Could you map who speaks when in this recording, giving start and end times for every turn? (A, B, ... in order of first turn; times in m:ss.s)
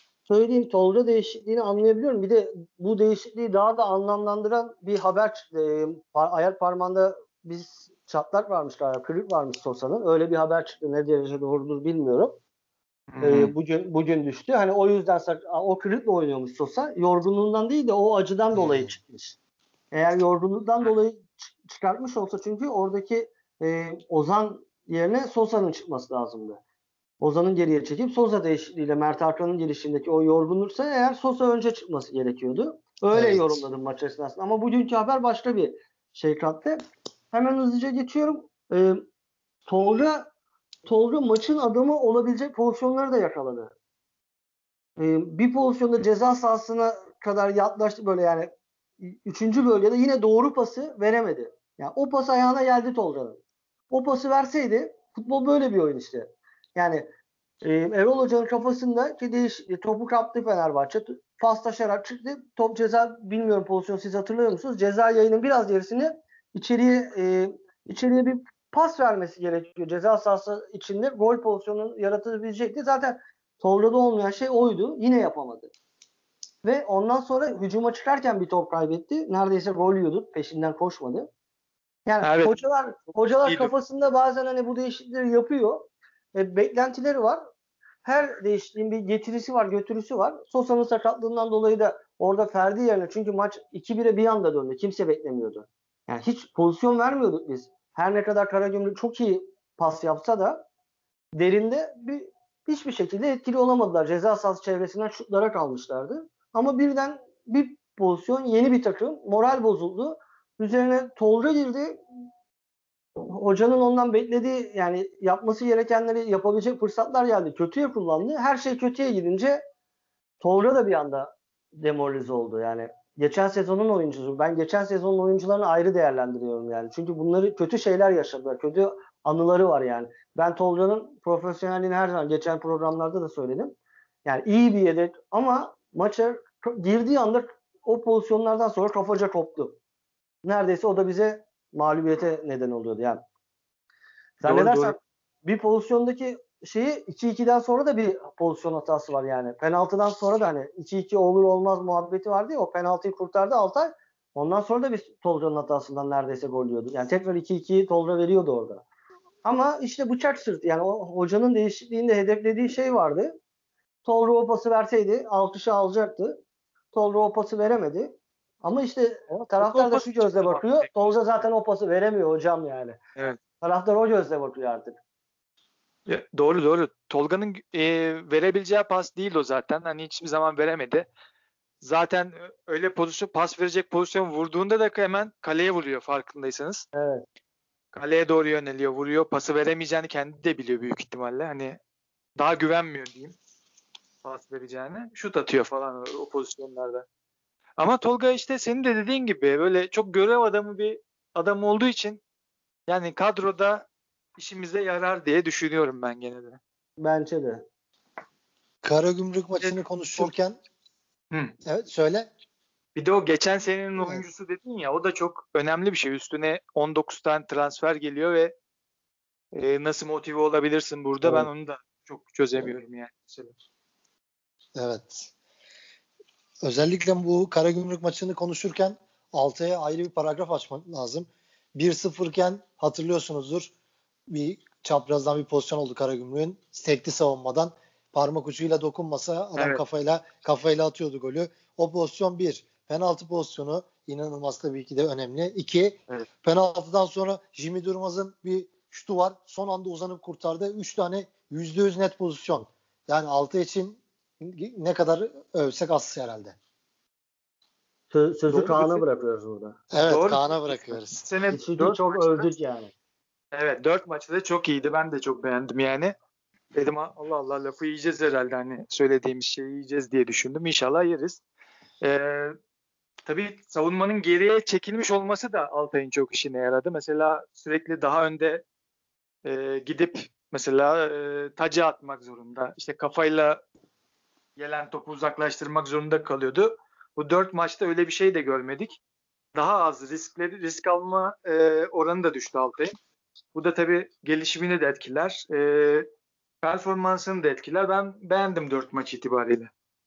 0:00.3-0:12.4 A
0:13.1-0:13.5 B
0:13.2-0:19.4 A
0:18.5-0:18.9 C
0:19.9-0:26.6 A
0:27.2-0:39.0 A
0:33.1-0:33.6 C
0:39.7-0:40.3 A
0:40.8-0:43.7 A
0:45.0-0:48.5 A
0:49.0-0:53.4 A
0:53.9-0:57.0 A
0:57.6-1:15.7 A
1:16.6-1:21.3 A
1:22.0-1:27.4 A
1:22.2-1:22.6 B
1:23.4-1:23.7 B
1:28.0-1:40.6 A
1:41.4-1:52.0 A
1:53.2-1:59.6 A
2:00.4-2:19.8 A
2:20.4-2:23.2 A
2:24.4-2:38.8 A
2:24.4-2:25.0 B
2:39.4-2:43.4 A
2:44.0-2:46.4 A
2:46.9-2:53.0 A
2:49.6-2:51.1 B
2:53.6-2:55.0 A
2:56.1-3:01.1 B
3:01.8-3:06.8 B
3:06.9-3:07.2 A
3:07.9-3:11.8 B
3:12.4-3:13.4 B
3:14.2-3:17.0 B
3:17.8-3:22.2 B
3:22.9-3:26.6 B
3:27.0-3:27.6 A
3:28.8-3:30.6 C
3:29.6-3:30.3 B
3:31.6-3:32.3 C
3:33.0-3:38.5 B
3:39.5-3:43.5 B
3:44.8-3:45.3 C
3:46.6-3:53.7 C
3:54.3-4:16.6 C
3:59.6-3:59.8 B
4:18.1-4:19.8 A
4:18.5-4:19.0 B
4:19.9-4:21.2 C
4:20.0-4:22.5 B
4:21.5-4:22.9 A
4:23.5-4:26.1 B
4:26.7-4:31.4 B
4:32.0-4:32.5 B
4:33.2-4:38.6 B
4:39.4-4:43.6 B
4:44.6-4:49.0 B
4:49.5-4:52.9 B
4:53.5-4:56.1 B
4:56.6-4:59.7 B